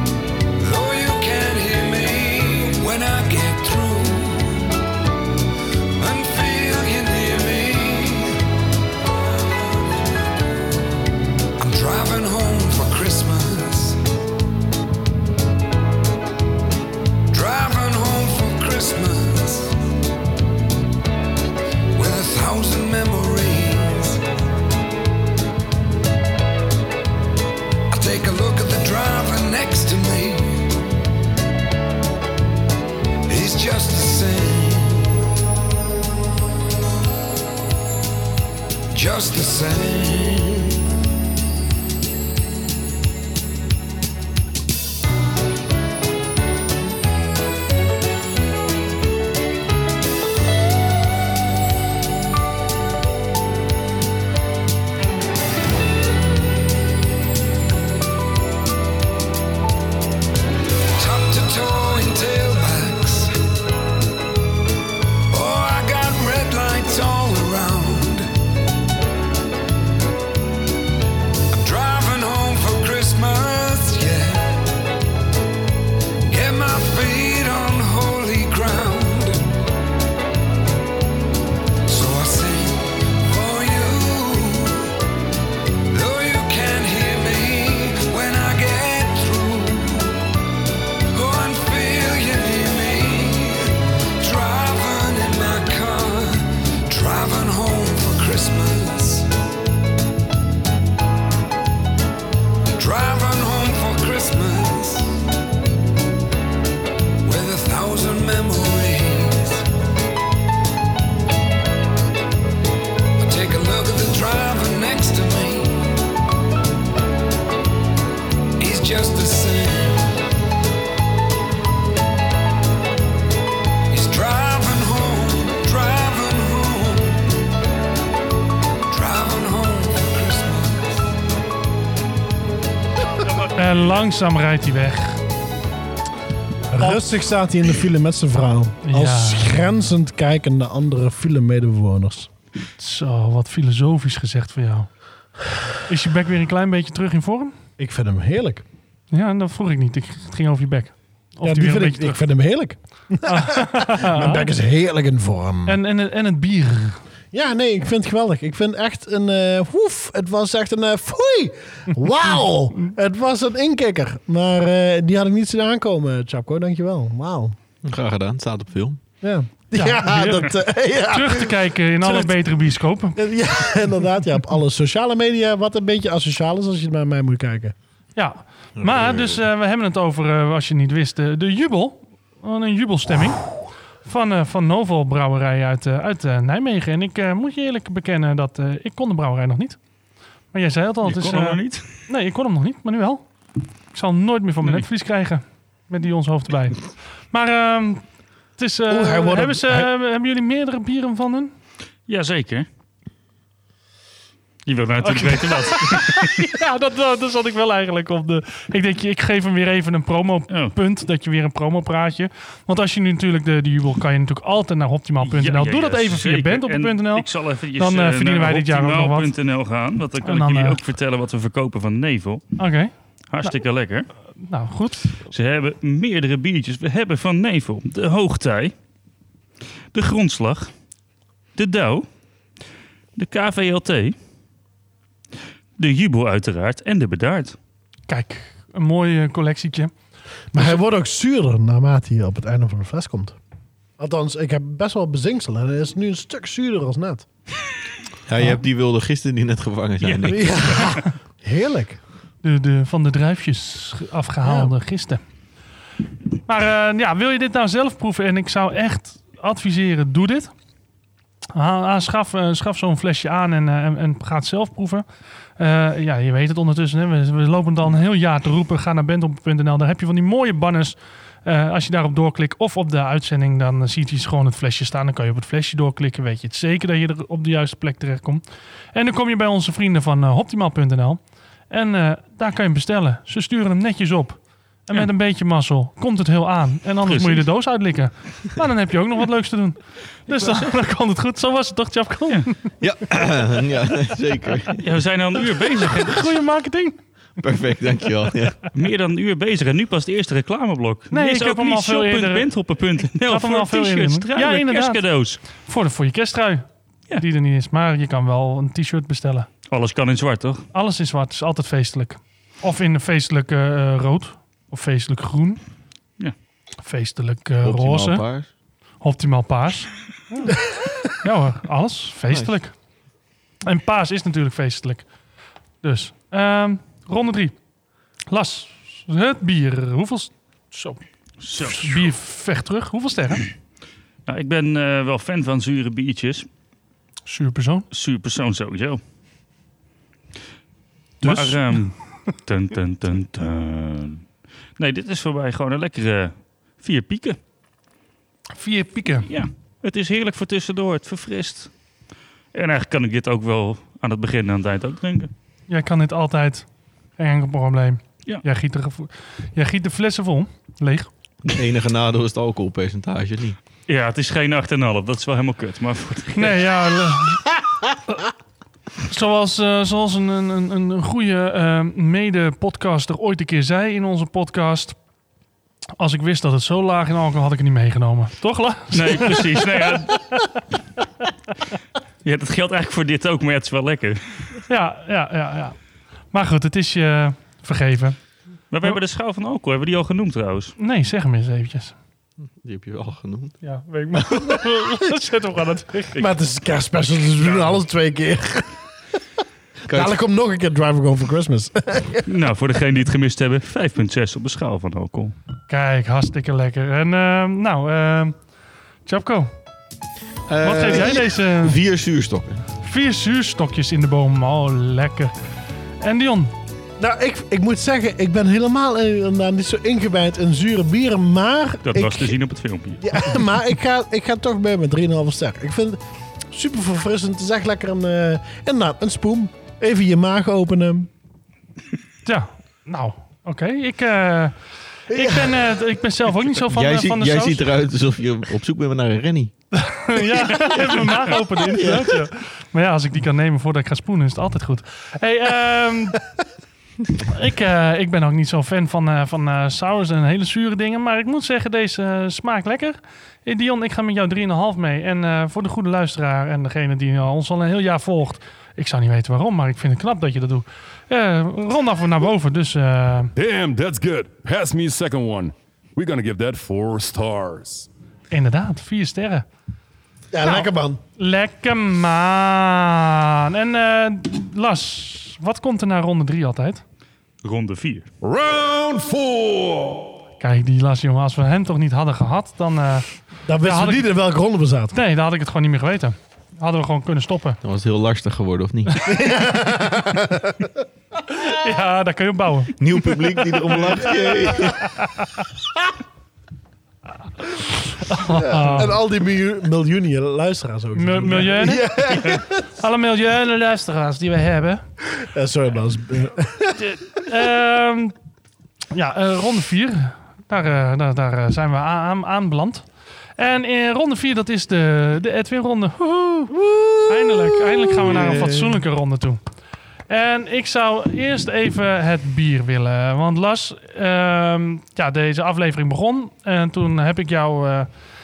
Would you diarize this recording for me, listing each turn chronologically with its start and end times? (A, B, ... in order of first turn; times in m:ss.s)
0:00.6-0:04.7 A
0:06.0-0:08.4 A
0:09.2-0:10.0 A
0:11.6-0:14.0 A
0:17.3-0:19.8 A
0:22.0-0:24.2 A
0:27.9-0:30.8 A
0:33.3-0:35.2 A
0:38.9-0:40.8 A
1:01.0-1:03.3 A
1:05.3-1:08.3 A
1:11.5-1:14.7 A
1:16.3-1:19.4 A
1:21.9-1:24.9 A
1:25.9-1:30.2 A
1:31.1-1:39.3 A
1:42.7-1:45.2 A
1:47.2-1:49.6 A
1:53.2-1:56.0 A
1:58.6-2:00.1 A
2:03.9-2:07.3 A
2:08.9-2:11.1 A
2:13.6-2:15.2 B
2:16.7-2:17.1 B
2:16.8-2:22.3 C
2:18.9-2:19.8 B
2:22.8-2:24.9 B
2:25.9-2:27.6 B
2:27.8-2:28.6 C
2:29.1-2:32.2 B
2:31.4-2:35.8 C
2:33.2-2:34.5 B
2:35.7-2:37.0 B
2:37.3-2:47.6 C
2:47.8-2:49.0 D
2:49.2-2:52.4 C
2:49.8-2:50.5 B
2:51.1-2:53.2 B
2:53.2-2:57.7 C
2:58.2-3:03.5 B
2:58.8-2:59.4 D
3:04.0-3:09.8 B
3:10.5-3:13.3 B
3:11.0-3:11.9 E
3:13.9-3:18.0 B
3:18.6-3:21.5 B
3:18.9-3:19.9 C
3:22.1-3:22.7 E
3:24.7-3:26.4 E
3:25.0-3:39.3 B
3:35.2-3:42.4 E
3:40.2-3:40.8 B
3:42.6-3:43.6 B
3:43.3-3:44.1 E
3:44.4-3:45.2 B
3:45.3-3:48.7 E
3:49.9-3:50.7 E
3:51.6-3:52.1 E
3:53.2-3:54.2 E
3:55.8-3:57.6 E
3:58.1-3:59.9 B
4:00.5-4:03.4 C
4:04.0-4:07.3 C
4:08.3-4:10.7 D
4:10.0-4:10.9 E
4:10.3-4:12.0 C
4:12.4-4:15.2 B
4:14.4-4:14.7 C
4:16.5-4:20.5 B
4:21.5-4:25.0 B
4:25.6-4:38.4 B
4:38.9-4:52.7 B
4:47.0-4:47.5 E
4:50.4-4:50.7 E
4:52.8-4:54.8 D
4:54.8-4:56.3 E
4:56.0-4:57.0 B
4:57.4-4:58.6 D
4:58.7-5:05.4 E
5:01.1-5:02.5 B
5:03.2-5:05.0 B
5:05.6-5:09.5 B
5:09.7-5:10.6 E
5:10.7-5:15.6 B
5:16.8-5:18.2 B
5:17.6-5:18.5 D
5:19.0-5:20.6 B
5:21.2-5:22.7 B
5:22.3-5:22.6 D
5:23.6-5:25.1 B
5:25.8-5:27.6 B
5:28.3-5:31.0 B
5:31.4-5:32.1 E
5:31.6-5:33.4 B
5:34.3-5:36.5 E
5:37.3-5:37.9 B
5:37.9-5:39.0 E
5:41.2-5:41.8 B
5:41.2-5:44.2 E
5:44.8-5:47.4 E
5:48.6-5:49.3 B
5:49.3-5:51.7 E
5:52.5-5:55.3 E
5:55.7-6:01.1 B
6:01.5-6:03.6 D
6:03.9-6:06.7 E
6:06.4-6:07.4 B
6:09.1-6:15.0 B
6:16.0-6:20.4 B
6:18.9-6:20.3 E
6:22.2-6:24.4 E
6:24.7-6:25.8 B
6:26.3-6:28.2 B
6:28.7-6:30.8 E
6:30.8-6:32.0 B
6:32.5-6:33.6 D
6:33.6-6:36.3 B
6:36.2-6:38.8 C
6:39.9-6:40.2 D
6:39.9-6:42.3 C
6:42.3-6:45.4 E
6:45.7-6:48.4 B
6:49.1-6:49.5 B
6:50.5-6:52.6 D
6:50.6-6:51.8 B
6:52.8-6:55.3 B
6:56.0-6:56.5 B
6:57.0-7:02.4 C
7:01.8-7:03.2 E
7:03.0-7:06.0 C
7:06.5-7:11.1 C
7:12.2-7:14.6 B
7:15.1-7:17.6 B
7:15.1-7:15.5 C
7:16.6-7:19.5 D
7:19.7-7:26.2 B
7:21.6-7:22.1 D
7:27.3-7:43.3 B
7:43.4-7:47.9 F
7:48.3-7:49.5 B
7:50.3-7:51.0 C
7:50.4-7:56.8 B
7:57.4-7:58.1 E
7:58.2-8:00.2 F
8:00.4-8:03.1 B
8:03.5-8:05.0 C
8:03.6-8:04.0 B
8:04.9-8:07.6 B
8:07.6-8:09.0 D
8:09.1-8:10.8 C
8:11.3-8:12.8 B
8:12.8-8:14.8 D
8:13.3-8:15.4 B
8:18.0-8:19.0 B
8:18.2-8:22.6 C
8:21.0-8:24.8 B
8:25.1-8:26.8 C
8:26.8-8:28.1 B
8:28.9-8:32.9 B
8:33.4-8:36.5 B
8:37.0-8:39.4 B
8:38.0-8:38.8 D
8:40.1-8:47.9 B